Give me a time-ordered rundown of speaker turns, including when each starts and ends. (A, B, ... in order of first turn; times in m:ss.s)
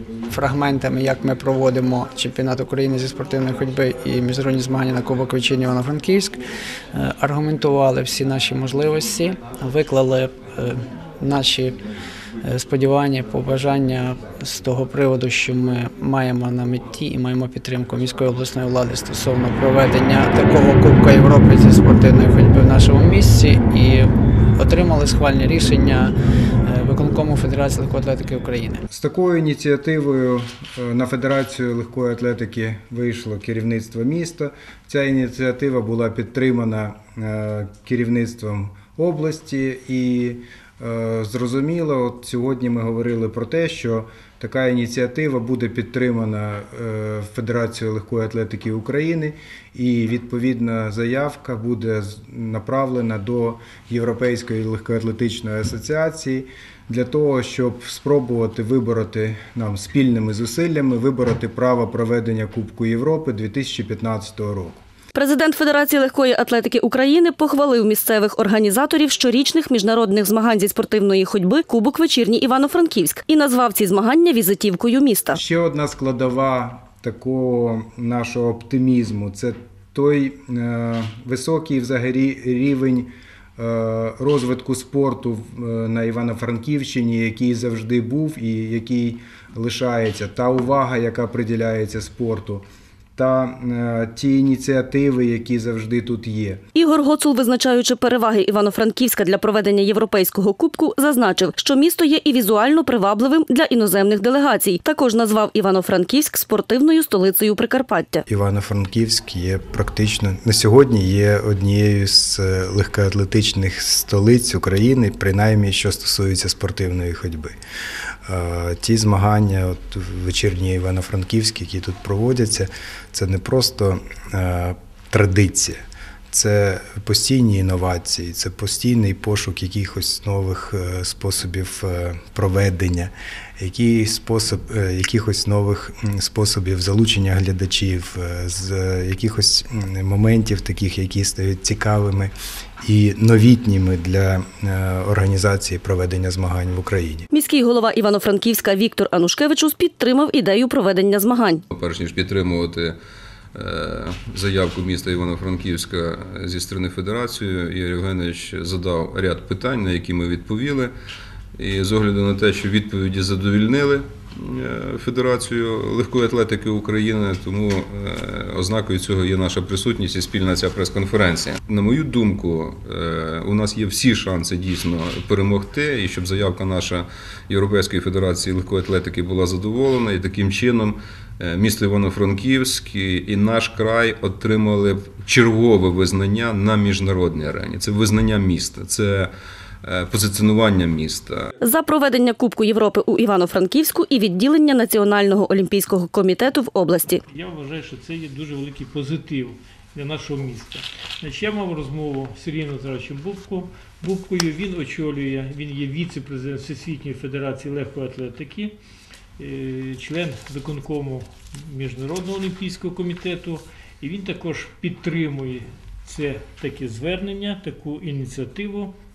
0:00.3-0:06.4 A
0:06.9-0:11.8 A
0:12.4-0:28.8 A
0:28.9-1:04.8 B
1:05.2-1:15.4 C
1:15.3-1:32.6 B
1:33.2-1:36.6 B
1:36.8-1:48.2 C
1:48.3-1:57.5 B
1:58.3-2:05.8 B
2:06.3-2:27.3 B
2:27.3-2:31.6 C
2:31.7-2:32.9 D
2:33.6-2:40.9 D
2:41.7-2:44.0 D
2:44.6-3:01.0 D
3:01.5-3:09.3 D
3:10.0-3:11.4 D
3:11.6-3:17.2 C
3:17.3-3:28.8 E
3:29.4-3:39.0 E